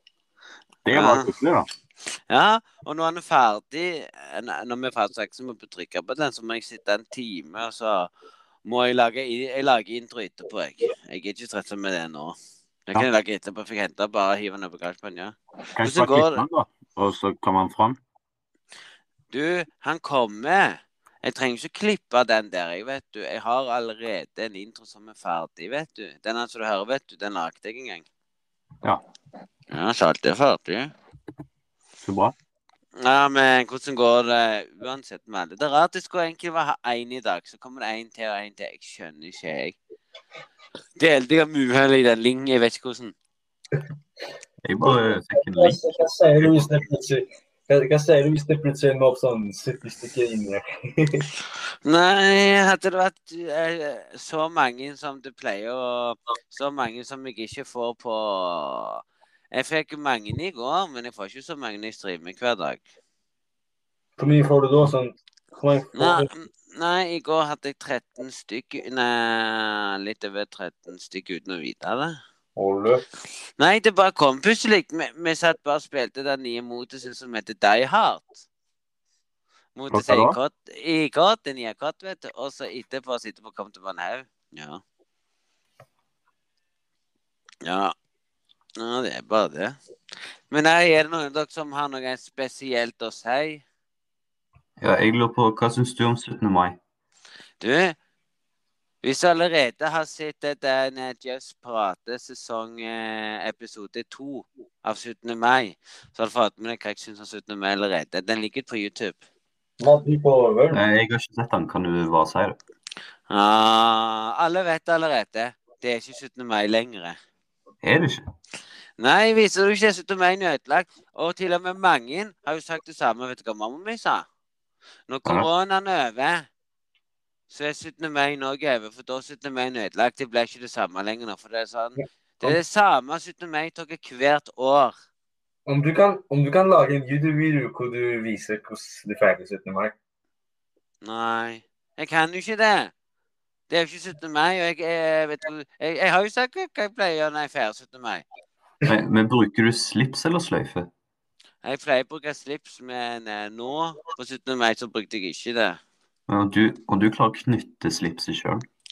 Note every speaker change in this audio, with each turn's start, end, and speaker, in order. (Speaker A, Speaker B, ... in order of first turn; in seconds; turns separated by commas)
Speaker A: 0.8-1.7, Speaker B: 0.9-1.3, Speaker B: 2.1-8.1, Speaker B: 8.7-12.4, Speaker B: 12.9-16.4, Speaker A: 15.8-18.0, Speaker B: 19.3-28.1, Speaker B: 29.7-30.9, Speaker A: 32.0-32.3, Speaker B: 33.0-39.8, Speaker B: 41.0-43.1, Speaker C: 44.6-45.8, Speaker D: 44.8-51.3, Speaker B: 51.9-62.9, Speaker D: 64.2-66.3, Speaker B: 66.0-72.2, Speaker D: 72.6-73.0, Speaker B: 73.6-78.4, Speaker B: 79.8-84.8, Speaker A: 79.9-80.4, Speaker B: 87.6-87.9, Speaker B: 88.8-89.8, Speaker B: 90.5-93.6, Speaker C: 94.8-96.8, Speaker B: 97.6-98.0, Speaker B: 99.0-109.2, Speaker D: 109.8-110.8, Speaker C: 110.7-112.6, Speaker B: 113.3-117.2, Speaker C: 117.8-118.2, Speaker B: 119.0-124.2, Speaker B: 125.1-126.5, Speaker B: 127.5-134.9, Speaker D: 135.7-139.9, Speaker B: 141.0-142.9, Speaker B: 143.7-148.2, Speaker C: 148.9-150.9, Speaker B: 151.6-155.8, Speaker C: 156.3-158.7